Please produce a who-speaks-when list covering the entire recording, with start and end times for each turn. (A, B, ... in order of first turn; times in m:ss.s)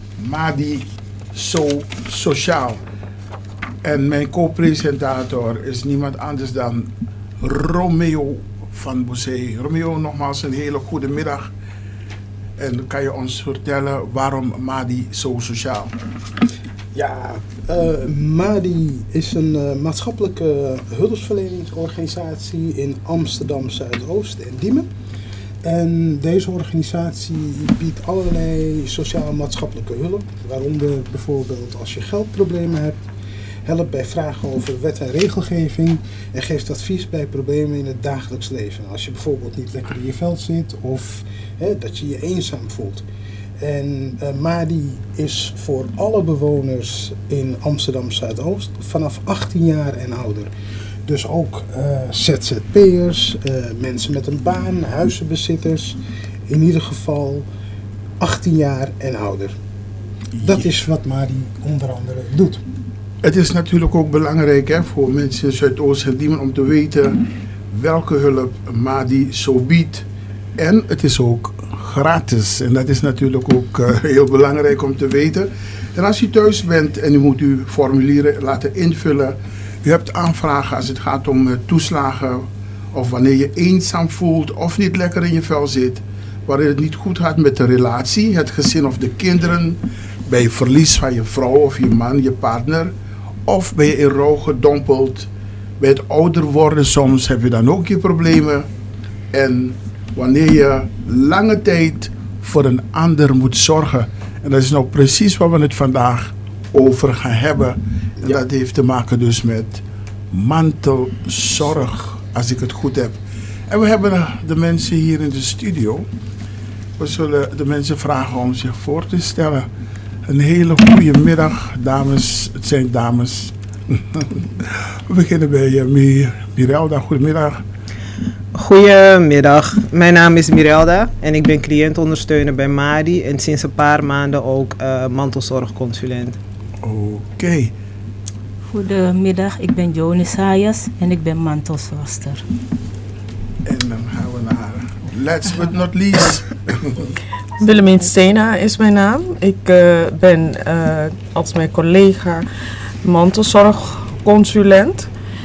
0:00.2-0:02.8 A
0:03.8-0:11.5 A
0:12.6-0:16.0 A
0:16.9-0:24.9 B
0:25.6-0:33.0 B
0:33.6-0:43.0 B
0:43.6-0:50.5 B
0:51.1-0:57.5 B
0:58.2-0:59.6 B
1:00.4-1:00.7 A
1:00.4-1:02.6 B
1:03.2-1:10.1 A
1:10.6-1:32.9 A
1:33.5-1:35.3 A
1:35.8-1:38.7 A
1:39.3-1:56.1 A
1:57.0-1:59.7 A
2:00.3-2:07.6 A
2:08.6-2:16.4 C
2:16.8-2:17.7 A
2:18.7-2:22.4 D
2:23.6-2:27.1 A
2:27.6-2:32.5 E
2:33.0-2:35.1 E